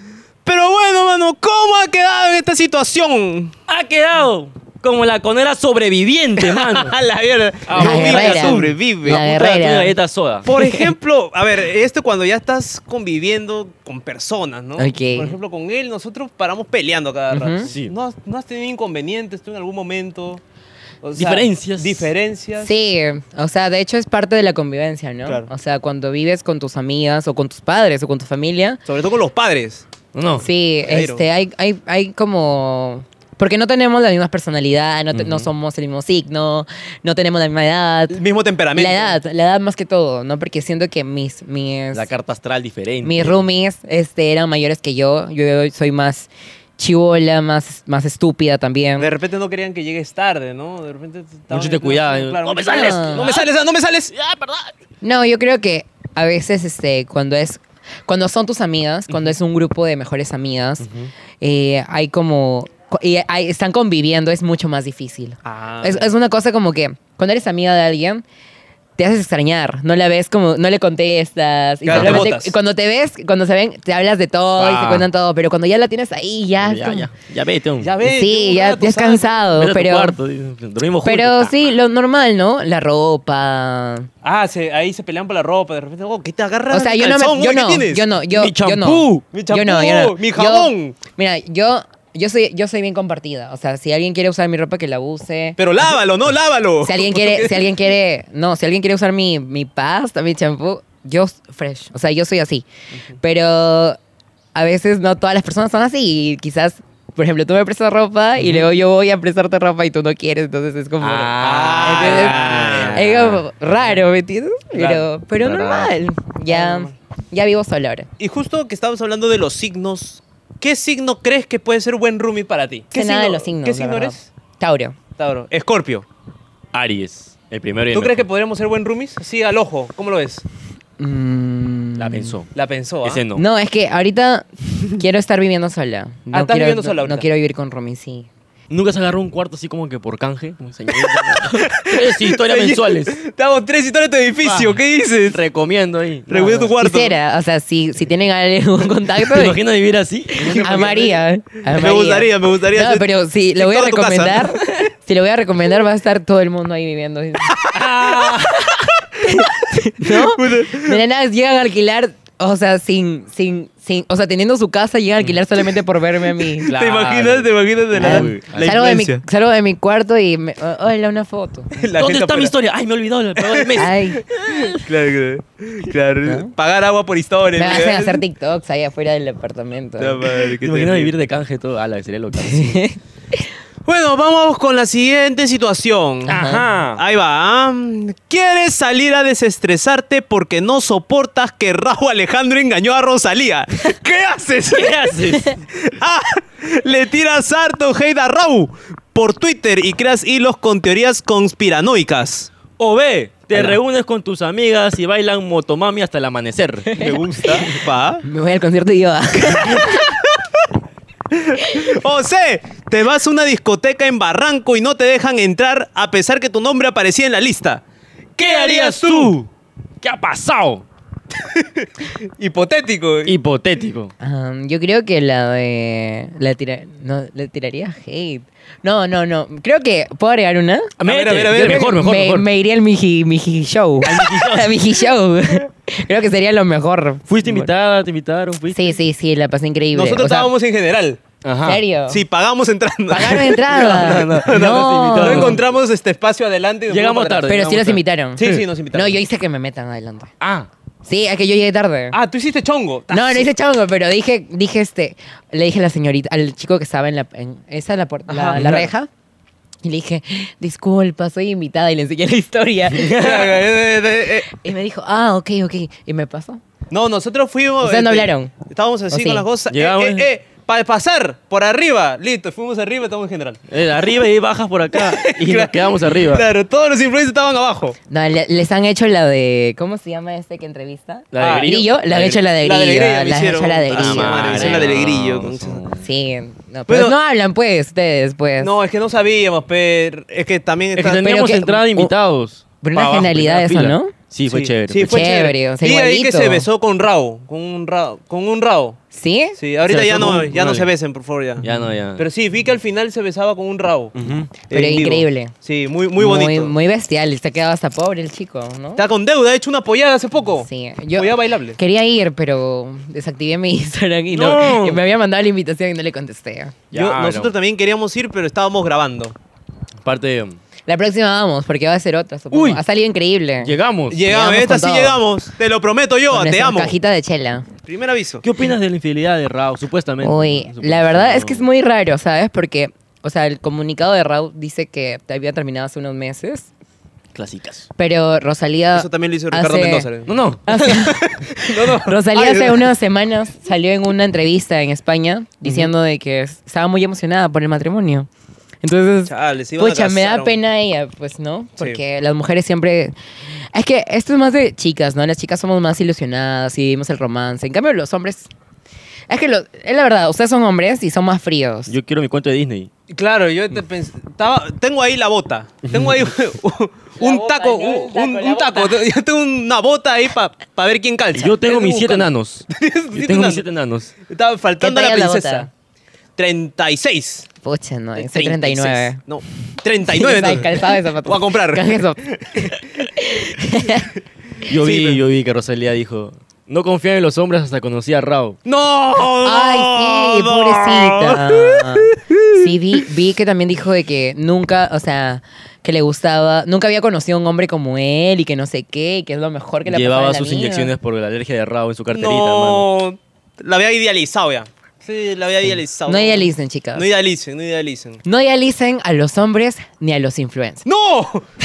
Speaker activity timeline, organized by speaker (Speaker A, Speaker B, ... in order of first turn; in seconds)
Speaker A: 0.4-3.5, 6.4-9.2, 10.4-20.4, 21.0-22.7, 28.9-29.8, 30.8-31.2, 38.1-39.2, 49.0-54.1, 65.4-66.1, 71.8-72.5, 77.8-79.3, 84.2-88.0, 89.3-91.0, 95.6-97.7, 111.4-113.0, 114.7-115.0, 116.5-116.9, 118.2-124.2, 125.2-126.0, 127.9-130.4, 132.5-133.2, 136.3-137.2, 141.3-145.4, 146.3-147.2, 150.4-154.4, 157.5-159.5, 160.0-161.0, 166.6-169.2, 171.7-172.5, 173.4-173.8, 174.4-178.2, 180.0-181.1, 183.8-186.4, 186.9-195.0, 195.8-202.5, 206.9-208.2, 209.5-210.4, 211.3-217.8, 218.4-219.4, 221.4-223.3, 231.0-232.0, 239.9-241.2, 242.1-247.5, 248.3-249.2, 252.1-253.5, 258.3-258.9, 263.1-264.5, 266.9-273.6, 274.9-277.9, 281.4-281.7, 282.6-285.8, 286.9-287.1, 288.6-291.2, 294.5-299.0, 299.6-301.6, 302.1-304.1, 304.7-306.7, 308.9-311.8, 316.9-319.3, 324.1-326.9, 327.9-328.4, 338.9-342.9, 349.2-350.6, 363.1-373.6, 374.3-375.7, 376.4-377.5, 378.2-382.8, 384.7-385.2, 388.6-392.6, 402.1-408.2, 410.8-411.4
Speaker B: 3.7-7.0, 7.7-10.5, 17.7-17.9, 21.1-22.1, 30.1-30.4, 35.1-35.5, 41.9-43.4, 51.5-53.5, 54.1-54.7, 60.8-61.1, 71.9-72.2, 74.6-75.1, 76.6-77.9, 79.6-81.6, 88.3-89.2, 108.4-108.7, 111.0-113.4, 115.3-115.9, 126.7-128.2, 132.0-132.5, 133.0-133.4, 138.7-143.2, 144.4-146.7, 149.3-151.0, 157.7-158.6, 166.7-168.8, 172.0-174.0, 180.5-182.8, 186.3-187.0, 194.7-195.6, 202.8-207.0, 218.4-219.4, 220.0-220.8, 223.2-224.1, 231.0-232.4, 234.0-234.8, 237.3-238.9, 241.4-241.8, 243.7-245.6, 246.9-248.6, 250.4-250.7, 262.9-263.5, 269.7-270.3, 273.7-276.4, 281.3-282.4, 283.9-286.1, 290.9-295.3, 299.9-300.9, 301.6-302.2, 304.1-304.5, 314.3-315.0, 316.9-317.5, 320.0-320.6, 322.5-322.8, 323.6-324.2, 328.4-331.6, 337.3-337.9, 340.3-340.6, 345.6-345.9, 361.9-362.9, 365.9-366.3, 371.3-374.1, 384.7-388.6, 399.9-402.9
Speaker C: 7.7-9.9, 10.5-10.9, 14.8-15.3, 17.3-17.7, 22.6-28.8, 30.4-38.2, 38.7-42.1, 43.0-49.1, 52.7-53.3, 55.0-60.9, 61.4-68.2, 69.0-77.1, 78.0-80.2, 81.0-84.1, 86.7-95.6, 96.8-102.6, 103.2-104.0, 104.5-118.1, 122.9-125.0, 131.0-132.4, 133.3-138.3, 146.5-149.6, 150.5-157.5, 159.2-166.7, 168.0-171.7, 173.7-174.3, 176.2-176.5, 177.6-180.2, 182.3-183.4, 186.3-186.7, 206.9-207.6, 208.2-210.1, 224.2-230.9, 231.5-237.7, 238.7-240.5, 241.6-242.2, 243.1-245.6, 247.4-250.3, 251.0-252.2, 253.1-259.1, 259.8-263.4, 264.5-266.6, 267.8-268.5, 269.1-269.4, 278.1-284.9, 286.0-288.7, 291.2-292.1, 292.8-294.1, 295.0-296.6, 299.1-299.6, 304.7-305.5, 306.2-309.0, 310.6-316.8, 320.9-323.7, 324.3-325.2, 326.3-327.7, 330.2-336.7, 338.0-340.1, 340.7-348.3, 348.8-353.1, 353.7-358.5, 359.3-361.9, 367.2-368.8, 374.8-375.7, 377.6-379.2, 380.1-382.2, 383.1-384.1, 389.4-400.9, 406.1-407.1, 408.2-410.8